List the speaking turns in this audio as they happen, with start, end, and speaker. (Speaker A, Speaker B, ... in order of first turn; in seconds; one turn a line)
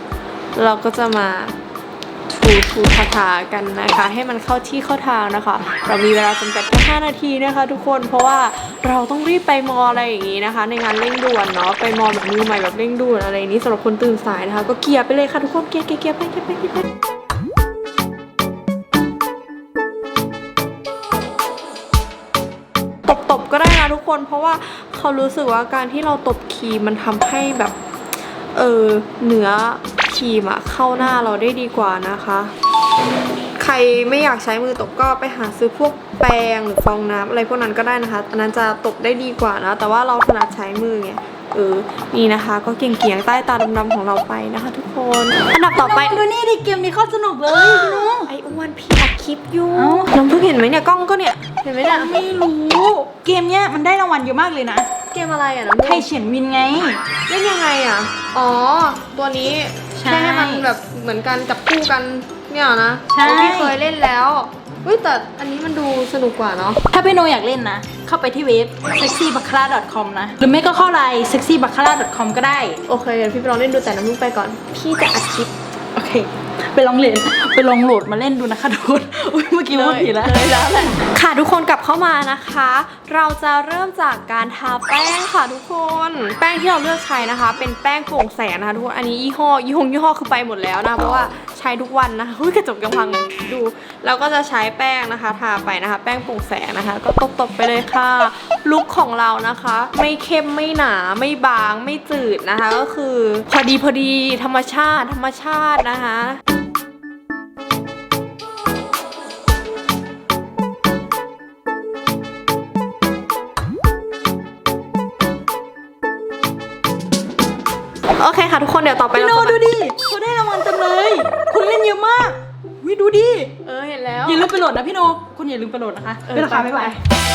Speaker A: 0.6-1.6
Speaker A: 2.3-16.9
Speaker A: 23.1-27.8
Speaker A: 28.5-32.5
Speaker A: 33.6-46.2
Speaker B: 45.6-48.3
Speaker A: 47.5-52.2
Speaker B: 49.7-50.1
Speaker B: 51.9-54.9
Speaker A: 55.1-56.1
Speaker B: 55.8-57.0
Speaker A: 57.3-66.8
Speaker B: 60.0-60.6
Speaker B: 63.1-63.8
Speaker B: 66.9-72.8
Speaker A: 72.9-75.5
Speaker B: 76.0-81.1
Speaker A: 79.7-106.4
Speaker A: 118.1-119.6
Speaker B: 119.2-123.5
Speaker A: 123.6-124.5
Speaker B: 124.2-127.0
Speaker A: 126.3-127.0